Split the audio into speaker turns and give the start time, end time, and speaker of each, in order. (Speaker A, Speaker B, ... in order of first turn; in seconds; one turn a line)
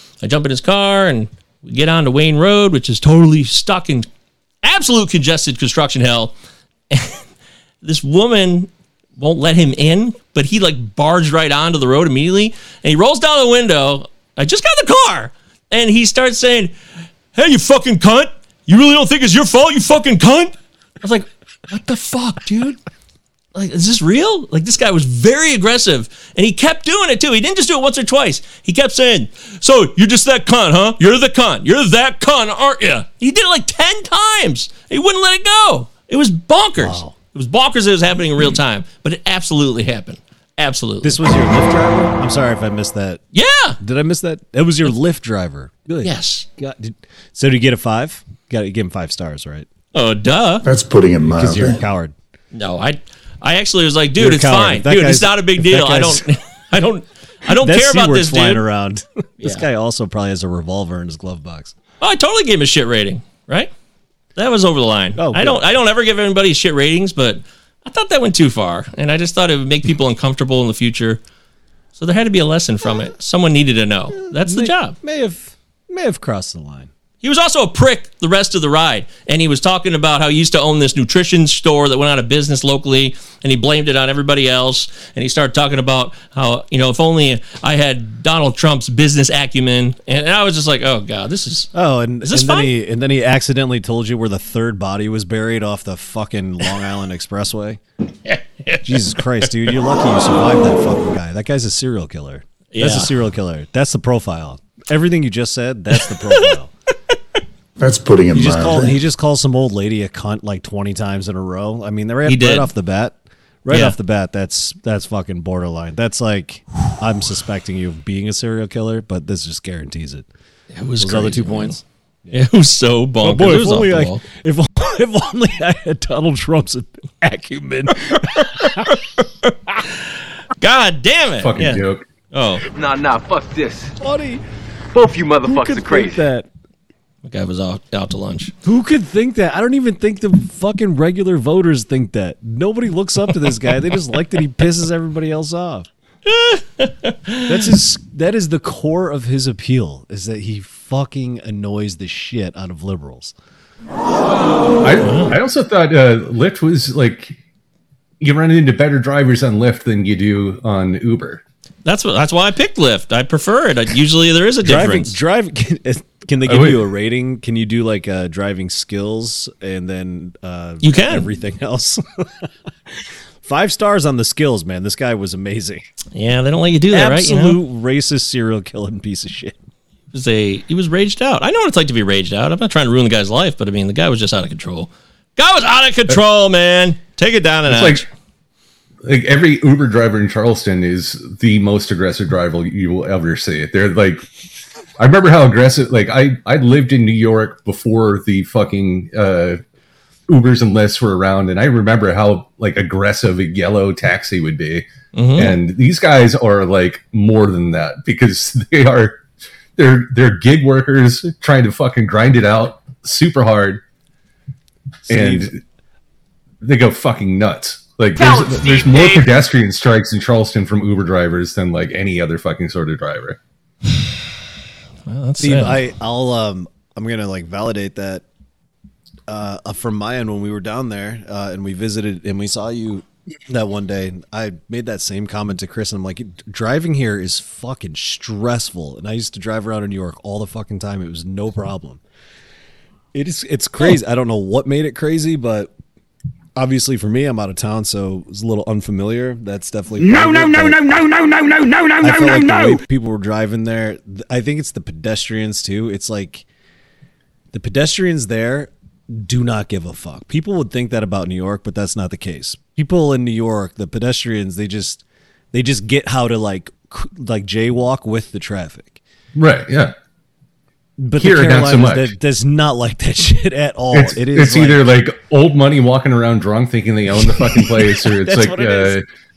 Speaker A: 0.2-4.1
Speaker A: 4.6-6.3
Speaker A: 6.9-7.2
Speaker A: 7.8-16.7
Speaker A: 17.3-22.8
Speaker A: 23.5-41.2
Speaker B: 36.8-37.1
Speaker B: 41.0-43.2
Speaker A: 43.3-43.8
Speaker B: 43.8-49.7
Speaker A: 46.0-46.5
Speaker A: 49.9-50.6
Speaker C: 50.6-51.8
Speaker B: 51.3-52.1
Speaker A: 52.5-58.6
Speaker B: 54.2-56.3
Speaker B: 57.5-61.8
Speaker A: 62.0-63.7
Speaker A: 64.3-71.2
Speaker B: 65.2-65.6
Speaker A: 72.0-75.0
Speaker B: 74.1-76.9
Speaker A: 77.2-91.7
Speaker B: 91.7-97.8
Speaker A: 92.2-92.7
Speaker A: 98.2-99.8
Speaker B: 98.8-106.7
Speaker A: 102.7-103.1
Speaker C: 107.8-109.0
Speaker B: 108.3-120.3
Speaker A: 112.2-112.7
Speaker A: 113.7-114.0
Speaker A: 120.7-121.8
Speaker B: 121.0-122.4
Speaker A: 122.3-124.2
Speaker B: 123.2-129.0
Speaker A: 128.1-130.1
Speaker A: 130.6-132.6
Speaker D: 131.4-132.0
Speaker E: 132.8-133.8
Speaker B: 134.0-134.4
Speaker E: 134.9-136.1
Speaker B: 135.4-136.5
Speaker A: 137.2-138.5
Speaker B: 138.6-145.9
Speaker A: 146.2-147.5
Speaker B: 147.4-153.3
Speaker D: 154.8-157.3
Speaker A: 155.0-155.3
Speaker D: 158.2-161.4
Speaker A: 161.8-165.1
Speaker B: 164.6-175.8
Speaker D: 166.4-166.8
Speaker A: 170.8-171.3
Speaker A: 176.1-177.6
Speaker B: 176.9-179.6
Speaker A: 180.1-188.1
Speaker D: 187.7-188.0
Speaker D: 189.0-194.2
Speaker D: 195.0-199.6
Speaker D: 200.3-209.2
Speaker A: 205.1-205.6
Speaker D: 209.8-213.8
Speaker B: 215.0-215.5
Speaker D: 215.1-215.6
Speaker D: 216.6-223.4
Speaker E: 218.2-219.2
Speaker A: 225.1-225.9
Speaker B: 225.4-228.2
Speaker B: 229.3-242.0
Speaker B: 243.1-245.7
Speaker B: 246.6-250.8
Speaker E: 250.0-252.8
Speaker B: 252.0-256.4
Speaker B: 257.5-269.0
Speaker D: 269.4-269.9
Speaker B: 271.0-274.9
Speaker D: 271.2-272.1
Speaker D: 273.9-279.0
Speaker B: 277.8-279.0